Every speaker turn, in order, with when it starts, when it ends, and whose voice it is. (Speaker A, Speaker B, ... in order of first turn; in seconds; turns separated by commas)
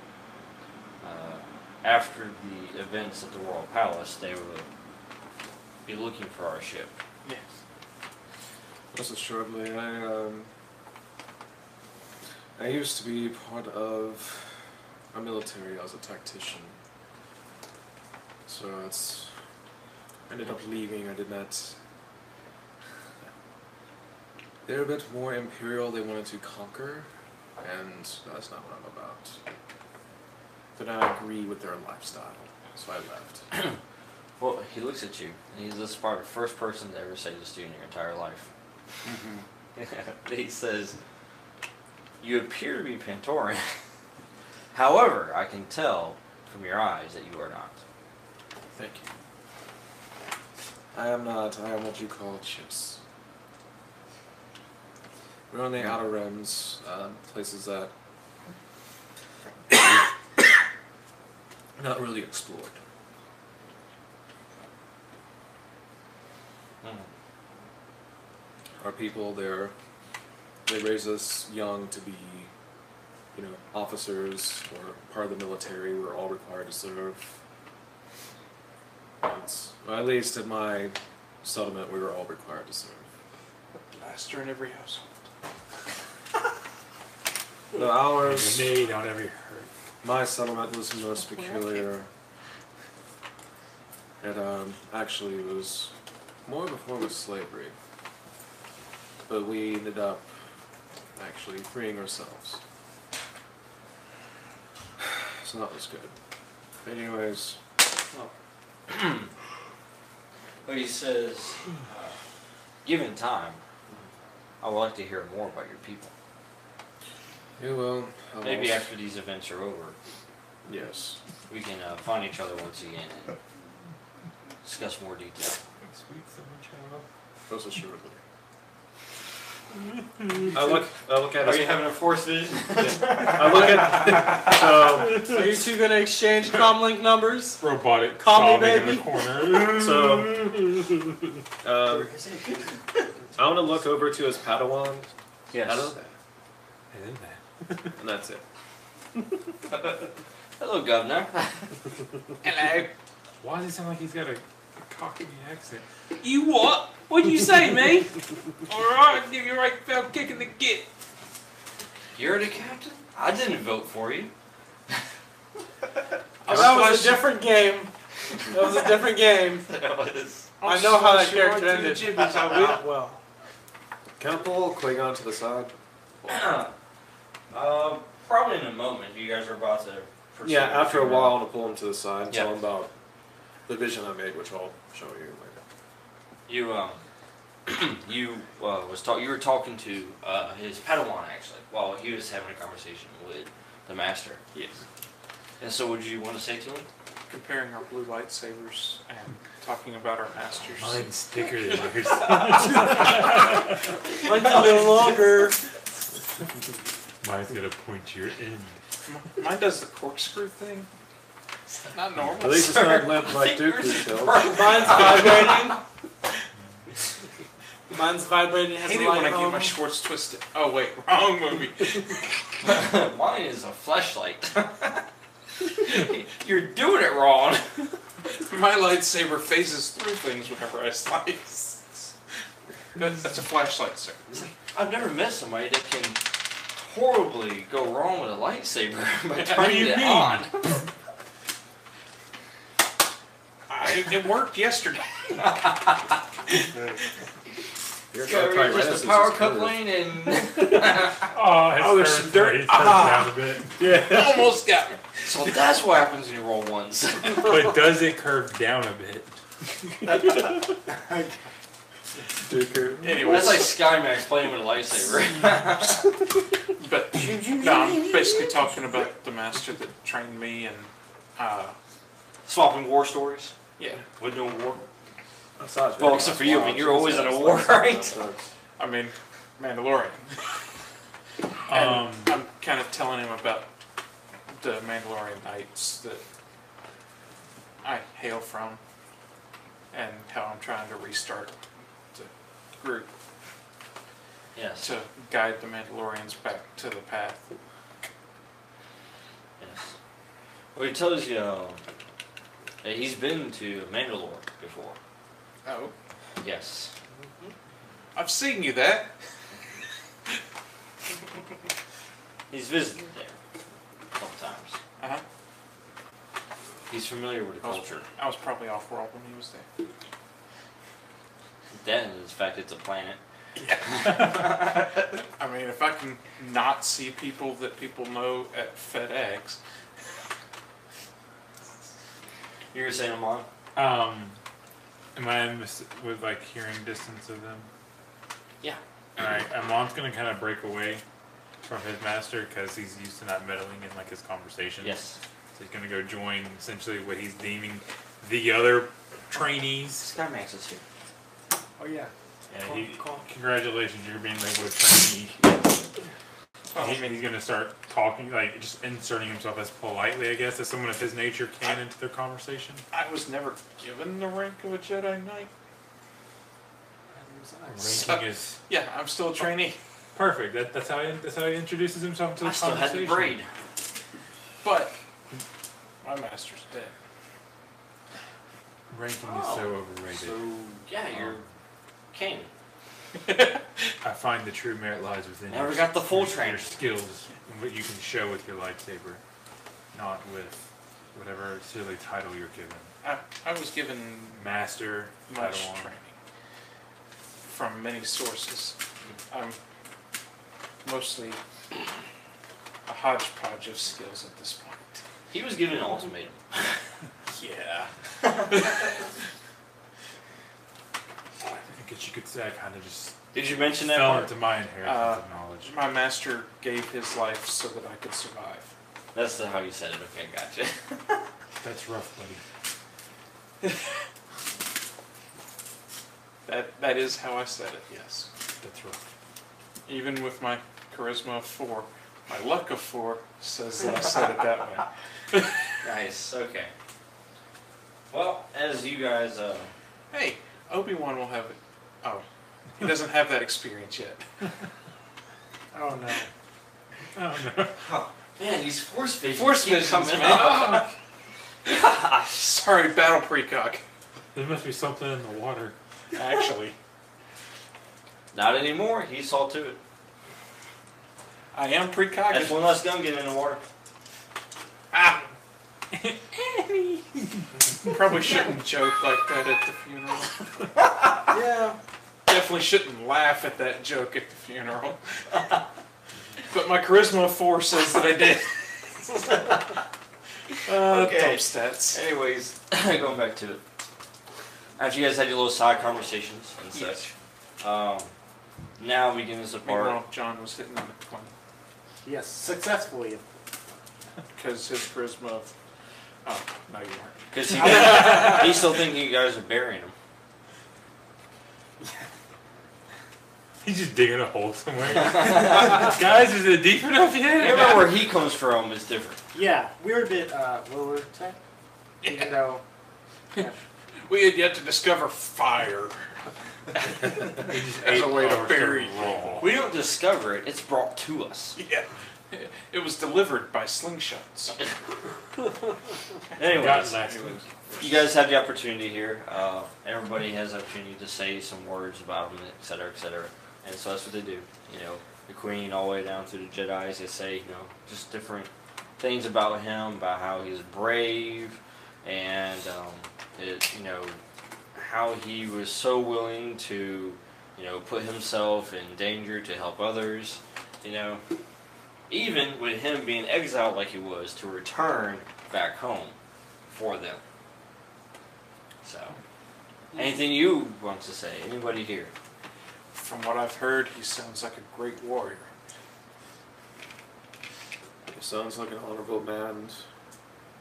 Speaker A: 1.0-4.7, Speaker A: 5.8-7.0, Speaker B: 7.2-7.5, Speaker C: 8.9-10.5, Speaker C: 12.6-14.6, Speaker C: 15.1-16.8, Speaker C: 18.5-19.3, Speaker C: 20.3-21.8, Speaker C: 24.6-27.1, Speaker C: 27.6-29.4, Speaker C: 30.8-33.5, Speaker A: 33.5-33.8, Speaker A: 34.4-38.5, Speaker C: 39.0-39.4, Speaker A: 39.8-41.0, Speaker A: 42.2-43.7, Speaker A: 44.7-47.8, Speaker C: 48.7-49.1, Speaker C: 50.9-53.0, Speaker C: 55.5-57.9, Speaker C: 61.8-62.8, Speaker A: 66.8-67.1, Speaker C: 68.8-69.7, Speaker C: 70.7-72.5, Speaker C: 73.3-77.3, Speaker C: 79.2-83.1, Speaker B: 83.9-85.1, Speaker C: 87.7-88.8, Speaker D: 88.2-89.7, Speaker C: 90.0-92.1, Speaker C: 94.2-95.9, Speaker C: 96.5-97.8, Speaker C: 99.3-100.2, Speaker C: 101.2-102.6, Speaker C: 105.0-106.1, Speaker C: 106.8-107.6, Speaker A: 108.9-109.3, Speaker A: 110.7-112.2, Speaker A: 112.8-113.6, Speaker A: 114.6-116.1, Speaker C: 117.6-118.9, Speaker A: 118.4-120.0, Speaker C: 120.7-121.2, Speaker A: 121.5-123.3, Speaker A: 124.6-125.6, Speaker D: 125.8-127.0, Speaker C: 127.5-128.2, Speaker C: 130.5-131.8, Speaker A: 131.4-134.3, Speaker C: 132.8-135.4, Speaker E: 135.2-139.3, Speaker D: 137.6-140.1, Speaker C: 139.7-140.9, Speaker C: 141.6-142.1, Speaker A: 141.9-142.8, Speaker C: 143.4-146.1, Speaker A: 145.5-146.0, Speaker D: 146.9-147.9, Speaker C: 148.0-148.4, Speaker A: 149.7-151.7, Speaker B: 152.4-152.9, Speaker D: 153.4-156.3, Speaker B: 156.2-158.1, Speaker D: 157.2-158.1, Speaker B: 158.7-160.8, Speaker A: 162.2-164.3, Speaker B: 166.4-167.3, Speaker E: 166.5-167.9, Speaker E: 168.5-169.6, Speaker A: 169.7-170.5, Speaker B: 170.6-172.8, Speaker E: 170.6-173.2, Speaker C: 174.2-176.5, Speaker A: 176.3-176.7, Speaker A: 177.5-181.4, Speaker C: 180.4-182.9, Speaker C: 183.7-185.6, Speaker A: 186.5-187.0, Speaker A: 187.7-194.4, Speaker B: 194.5-194.8, Speaker A: 195.6-196.9, Speaker B: 197.3-201.1, Speaker D: 200.8-203.6, Speaker A: 202.6-203.1, Speaker A: 204.1-205.2, Speaker E: 204.2-205.6, Speaker D: 207.2-208.8, Speaker B: 209.1-210.9, Speaker B: 211.8-212.8, Speaker C: 212.4-214.9, Speaker A: 212.6-215.8, Speaker E: 214.4-215.8, Speaker E: 217.9-219.8, Speaker B: 218.8-222.3, Speaker A: 222.6-225.1, Speaker A: 225.6-228.0, Speaker B: 228.4-232.1, Speaker B: 233.0-234.4, Speaker A: 234.3-240.7, Speaker B: 239.4-240.1, Speaker D: 239.5-240.5, Speaker B: 243.7-245.6, Speaker A: 245.4-246.1, Speaker C: 248.1-249.9, Speaker A: 248.2-251.3, Speaker D: 251.2-253.8, Speaker B: 251.6-255.2, Speaker C: 253.8-254.6, Speaker A: 255.2-257.9, Speaker D: 257.3-259.4, Speaker A: 260.1-260.4, Speaker C: 262.4-263.7, Speaker B: 263.0-263.8, Speaker A: 263.2-266.1, Speaker B: 266.8-271.8, Speaker A: 272.5-273.6, Speaker B: 273.8-274.1, Speaker A: 274.2-274.9, Speaker C: 275.6-278.5, Speaker A: 276.0-278.1, Speaker B: 278.8-280.3, Speaker D: 281.7-282.4, Speaker B: 281.7-283.7, Speaker B: 284.5-286.2, Speaker B: 287.8-288.8, Speaker B: 289.9-291.6, Speaker B: 292.1-293.1, Speaker A: 294.6-294.9, Speaker B: 294.8-297.6, Speaker A: 299.6-299.9, Speaker A: 300.7-301.8, Speaker A: 302.8-305.0, Speaker B: 305.6-305.9, Speaker A: 306.4-306.9, Speaker B: 308.1-309.1, Speaker A: 312.5-313.4, Speaker A: 314.1-314.8, Speaker A: 316.9-318.1, Speaker B: 317.6-319.7, Speaker A: 321.7-323.2, Speaker B: 323.6-324.8, Speaker A: 323.9-325.1, Speaker B: 325.4-329.6, Speaker A: 332.7-333.5, Speaker D: 333.8-334.4, Speaker D: 335.1-337.7, Speaker D: 339.2-341.0, Speaker D: 341.6-345.0, Speaker A: 344.8-345.2, Speaker D: 345.6-350.1, Speaker A: 350.0-350.8, Speaker F: 351.8-352.1, Speaker D: 352.5-355.9, Speaker B: 356.7-357.2, Speaker D: 356.8-362.8, Speaker B: 362.9-365.5, Speaker F: 367.1-368.1, Speaker D: 367.7-368.6, Speaker B: 368.0-369.8, Speaker D: 370.1-373.4, Speaker A: 372.4-373.5, Speaker B: 374.6-375.0, Speaker B: 376.0-376.9, Speaker D: 378.9-380.5, Speaker A: 379.2-381.5, Speaker A: 382.1-382.5, Speaker B: 383.3-383.6, Speaker D: 384.0-389.2, Speaker A: 385.5-386.8, Speaker D: 389.9-392.9, Speaker B: 393.0-394.5, Speaker D: 394.4-395.9, Speaker B: 395.3-396.1, Speaker B: 397.5-398.8, Speaker B: 399.3-399.6, Speaker B: 400.8-401.4, Speaker B: 402.9-405.0, Speaker A: 405.3-406.8, Speaker B: 407.4-407.9, Speaker A: 408.2-408.9, Speaker D: 411.7-413.2, Speaker A: 413.3-414.4, Speaker D: 413.8-415.7, Speaker B: 414.8-418.7, Speaker A: 419.1-421.3, Speaker D: 421.6-422.4, Speaker B: 426.5-428.3, Speaker D: 428.6-429.0, Speaker B: 429.9-435.6, Speaker A: 435.8-436.7, Speaker A: 438.1-439.7, Speaker B: 440.1-442.2, Speaker B: 442.8-444.2, Speaker F: 445.7-446.3, Speaker D: 447.1-447.8, Speaker A: 447.8-450.9, Speaker B: 449.3-450.9, Speaker A: 451.6-452.7, Speaker B: 452.5-453.8, Speaker D: 454.4-455.8, Speaker B: 456.1-456.8, Speaker A: 458.3-459.8, Speaker B: 461.5-462.7, Speaker A: 462.3-463.6, Speaker B: 464.9-465.3, Speaker D: 465.9-468.0, Speaker B: 467.8-470.4, Speaker B: 471.3-471.6, Speaker B: 472.3-475.0, Speaker B: 476.5-479.5, Speaker A: 479.3-479.8, Speaker B: 480.6-482.0, Speaker A: 480.7-483.6, Speaker A: 484.8-488.1, Speaker B: 486.7-487.1, Speaker A: 488.8-490.0, Speaker B: 489.6-491.3, Speaker F: 492.0-493.2, Speaker B: 494.3-495.5, Speaker B: 496.2-498.4, Speaker A: 497.3-499.9, Speaker D: 503.6-508.0, Speaker A: 505.0-505.9, Speaker A: 507.3-509.2, Speaker F: 509.3-511.4, Speaker B: 512.0-512.4, Speaker F: 512.0-512.6, Speaker B: 514.1-516.1, Speaker B: 516.8-519.5, Speaker D: 517.3-519.5, Speaker A: 519.4-521.6, Speaker B: 521.6-524.6, Speaker A: 526.4-527.2, Speaker D: 526.4-528.0, Speaker A: 527.8-544.2, Speaker A: 544.8-551.2, Speaker A: 552.1-556.1, Speaker A: 556.7-557.2, Speaker A: 558.8-559.2, Speaker A: 560.0-562.1, Speaker B: 562.9-565.5, Speaker C: 568.0-569.8